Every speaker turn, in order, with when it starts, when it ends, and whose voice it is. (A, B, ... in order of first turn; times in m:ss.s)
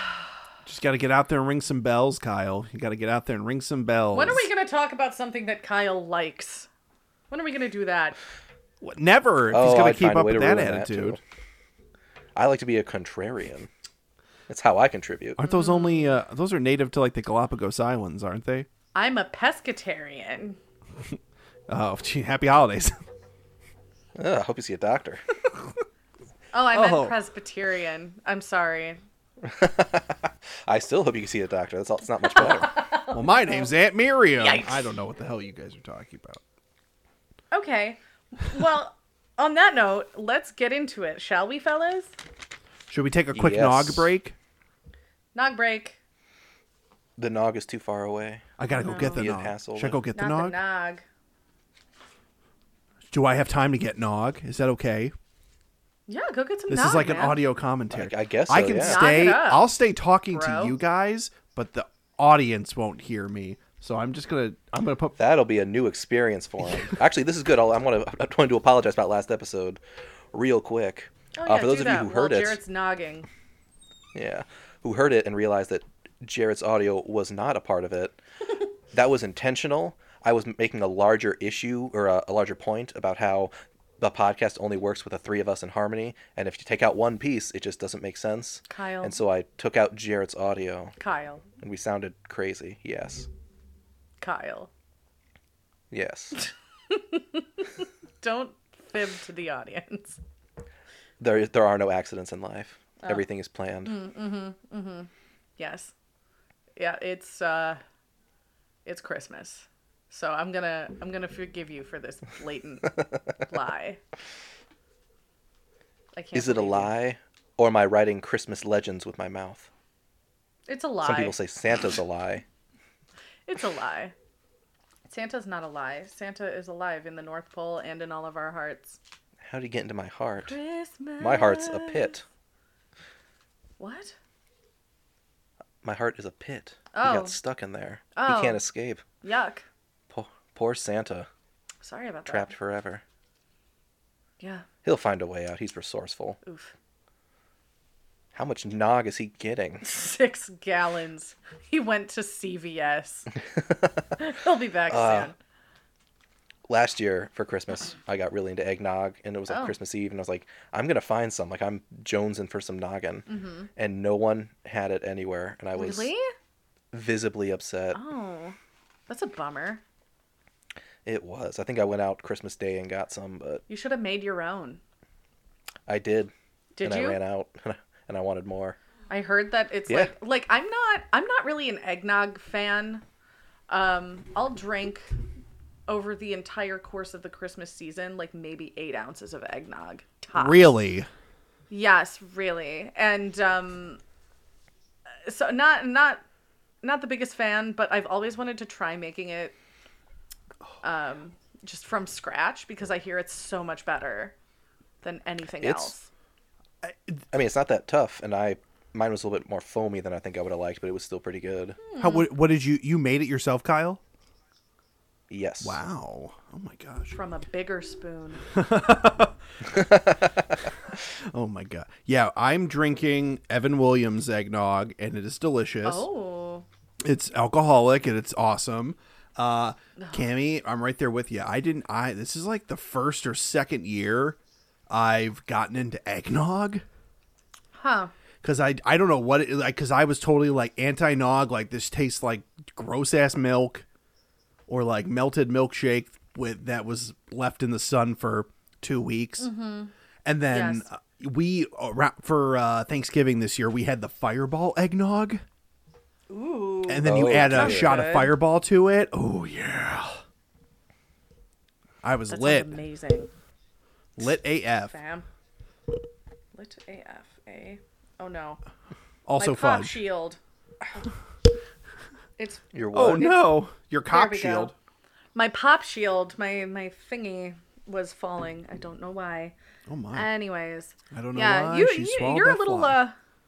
0:00.6-0:04.5 A
0:04.1-0:06.7 B
0:07.3-0:08.2 B
0:08.8-0:11.2 A
0:09.5-0:11.2 C
0:12.4-0:13.7 C
0:14.5-0:15.4 C
0:15.4-0:18.7 A
0:15.4-0:16.2 B
0:19.0-0:20.6 B
0:21.7-0:23.0 A
0:24.2-0:25.2 C
0:26.5-0:29.0 B
0:26.7-0:27.1 A
0:29.4-0:32.8 C
0:32.4-0:33.7 B
0:33.1-0:36.4 A
0:34.4-0:34.8 B
0:37.5-0:42.2 B
0:42.9-0:44.4 A
0:43.4-0:44.1 C
0:45.4-0:46.0 B
0:47.2-0:48.5 C
0:48.6-0:50.6 A
0:48.8-0:49.3 B
0:49.1-0:50.0 C
0:50.2-0:51.0 B
0:53.1-0:55.1 A
0:56.1-0:57.4 B
0:56.7-1:05.2 A
0:57.9-0:59.1 C
0:58.8-0:59.7 B
1:00.3-1:00.8 B
1:05.2-1:09.8 C
1:10.3-1:12.6 C
1:11.4-1:13.3 B
1:14.1-1:18.2 C
1:18.9-1:31.0 C
1:28.7-1:29.2 B
1:31.0-1:31.4 B
1:31.6-1:33.3 C
1:34.2-1:34.7 B
1:35.9-1:36.4 C
1:36.9-1:40.2 B
1:41.2-1:44.0 C
1:43.8-1:45.9 B
1:46.8-1:47.8 B
1:48.9-1:54.0 B
1:56.1-1:56.9 B
1:56.4-1:59.7 C
2:00.7-2:01.4 B
2:01.0-2:02.4 C
2:03.5-2:04.1 B
2:05.1-2:09.0 B
2:09.4-2:10.6 C
2:10.5-2:12.2 B
2:11.2-2:12.2 C
2:13.8-2:14.2 B
2:15.8-2:19.0 C
2:16.9-2:17.4 B
2:18.2-2:18.6 B
2:19.2-2:19.6 B
2:20.1-2:21.3 C
2:21.8-2:22.5 B
2:22.3-2:23.0 C
2:24.4-2:24.7 B
2:24.8-2:26.4 C
2:26.4-2:26.7 B
2:28.3-2:29.8 C
2:29.8-2:33.3 B
2:33.6-2:33.9 C
2:34.2-2:35.4 B
2:34.9-2:35.3 C
2:36.7-2:46.1 C
2:39.5-2:39.8 B
2:43.3-2:43.7 B
2:45.8-2:46.3 B
2:46.9-2:48.0 C
2:47.9-2:48.6 B
2:49.1-2:49.8 B
2:51.0-2:53.6 C
2:53.7-2:54.8 B
2:55.9-2:58.8 C
2:56.8-2:57.2 B
2:59.1-3:03.0 B
3:03.7-3:05.1 B
3:05.9-3:10.7 B
3:10.3-3:11.1 A
3:11.7-3:14.0 B
3:15.2-3:16.2 B
3:16.8-3:19.6 B
3:20.8-3:24.3 B
3:25.0-3:26.1 B
3:25.6-3:25.9 C
3:27.3-3:31.8 C
3:31.9-3:32.3 B
3:32.0-3:34.0 A
3:35.3-3:35.8 C
3:35.6-3:37.2 A
3:37.1-3:38.4 B
3:38.5-3:39.4 A
3:39.7-3:40.3 C
3:41.1-3:46.1 A
3:45.8-3:46.7 B
3:47.0-3:54.4 A
3:50.0-3:50.3 B
3:54.9-3:56.8 A
3:57.8-3:58.1 B
3:58.4-4:03.8 A
4:04.7-4:09.5 A
4:09.4-4:09.9 B
4:10.2-4:15.4 A
4:10.5-4:10.9 B
4:16.3-4:18.3 B
4:16.9-4:20.2 A
4:17.0-4:17.9 C
4:22.0-4:22.8 A
4:22.3-4:23.3 B
4:24.2-4:25.0 A
4:24.9-4:25.3 B
4:26.6-4:28.6 B
4:29.3-4:30.0 A
4:29.4-4:31.1 B
4:32.4-4:33.5 B
4:32.7-4:33.4 C
4:32.9-4:34.7 A
4:34.1-4:34.7 B
4:35.4-4:39.6 B
4:39.9-4:40.3 A
4:40.1-4:43.2 B
4:41.1-4:43.0 A